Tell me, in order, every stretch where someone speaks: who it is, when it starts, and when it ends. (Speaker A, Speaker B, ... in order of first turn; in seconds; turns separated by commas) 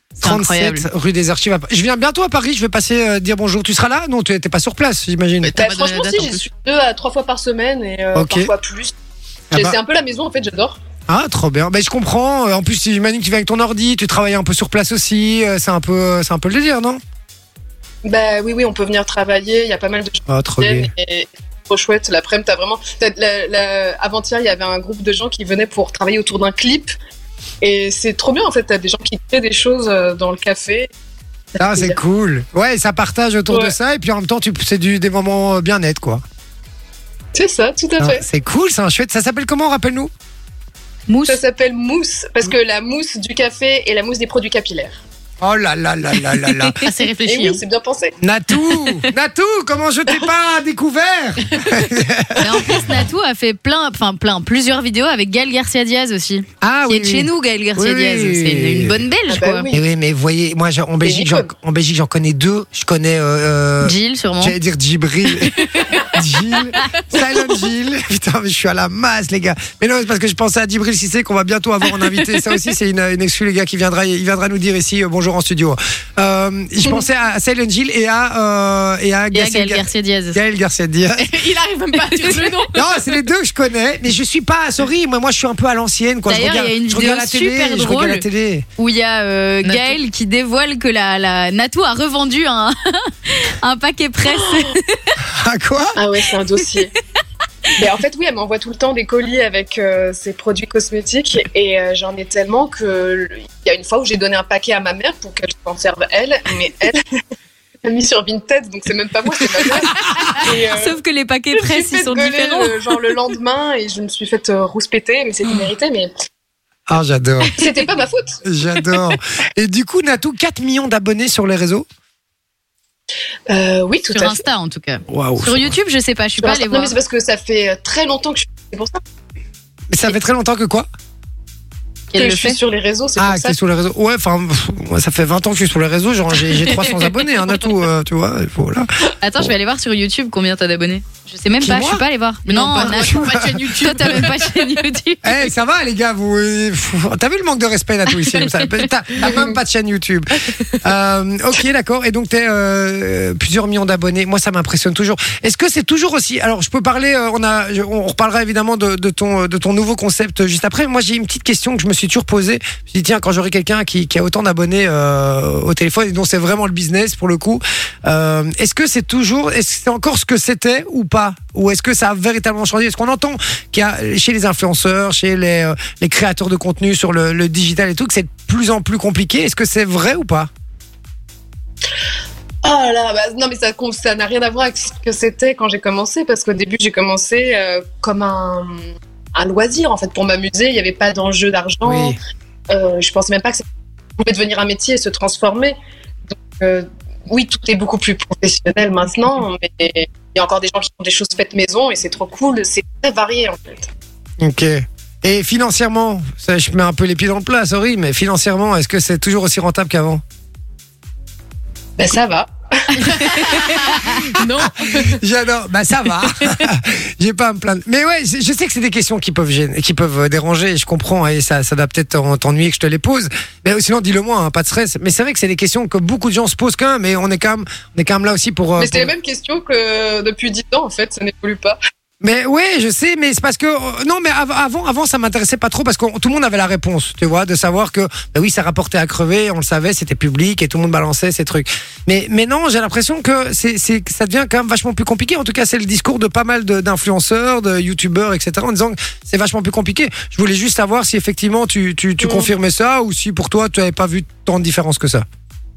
Speaker A: 0.2-5.5, Speaker B: 0.2-0.9, Speaker C: 5.4-6.4, Speaker D: 5.5-8.9, Speaker A: 8.1-8.5, Speaker A: 9.5-9.8, Speaker D: 9.5-10.8, Speaker A: 11.1-17.0, Speaker D: 18.0-26.9, Speaker A: 20.3-20.9, Speaker D: 27.6-30.9, Speaker D: 31.5-32.0, Speaker A: 31.6-36.2, Speaker D: 33.5-33.7, Speaker D: 37.3-38.2, Speaker A: 38.0-40.1, Speaker B: 41.1-41.4, Speaker D: 41.3-45.0, Speaker A: 45.4-46.8, Speaker C: 46.8-47.6, Speaker D: 47.2-48.1, Speaker A: 48.2-52.9, Speaker B: 52.4-59.7, Speaker A: 56.6-59.0, Speaker D: 59.3-59.8, Speaker A: 59.7-65.6, Speaker D: 61.0-61.5, Speaker B: 63.8-64.5, Speaker A: 66.1-81.3, Speaker B: 79.3-80.4, Speaker C: 81.2-82.8, Speaker A: 82.7-88.7, Speaker B: 86.3-88.2, Speaker B: 88.8-95.2, Speaker C: 89.6-90.0, Speaker D: 94.2-94.8, Speaker A: 95.2-96.0, Speaker D: 96.0-96.9, Speaker D: 97.8-107.0, Speaker D: 107.8-111.0, Speaker B: 110.7-112.9, Speaker D: 111.5-116.1, Speaker A: 116.9-117.6, Speaker D: 117.6-118.4, Speaker A: 118.4-121.9, Speaker D: 123.5-124.4, Speaker B: 124.1-126.9, Speaker A: 125.1-125.7, Speaker D: 126.4-129.0, Speaker A: 129.9-130.9, Speaker B: 132.1-132.6, Speaker D: 132.2-133.6, Speaker A: 133.2-139.5, Speaker B: 139.2-145.4, Speaker A: 141.6-142.0, Speaker C: 142.4-144.7, Speaker A: 142.7-143.6, Speaker A: 145.2-180.5, Speaker B: 148.2-148.6, Speaker D: 149.2-149.5, Speaker D: 182.6-188.8, Speaker D: 189.3-192.2, Speaker A: 191.8-192.2, Speaker D: 192.7-193.6, Speaker D: 194.2-195.8, Speaker D: 196.3-203.9, Speaker A: 204.4-210.2, Speaker D: 212.0-213.6, Speaker B: 213.1-214.2, Speaker C: 213.2-215.2, Speaker A: 214.6-229.1, Speaker D: 228.8-231.8, Speaker A: 232.2-255.2, Speaker D: 252.2-252.5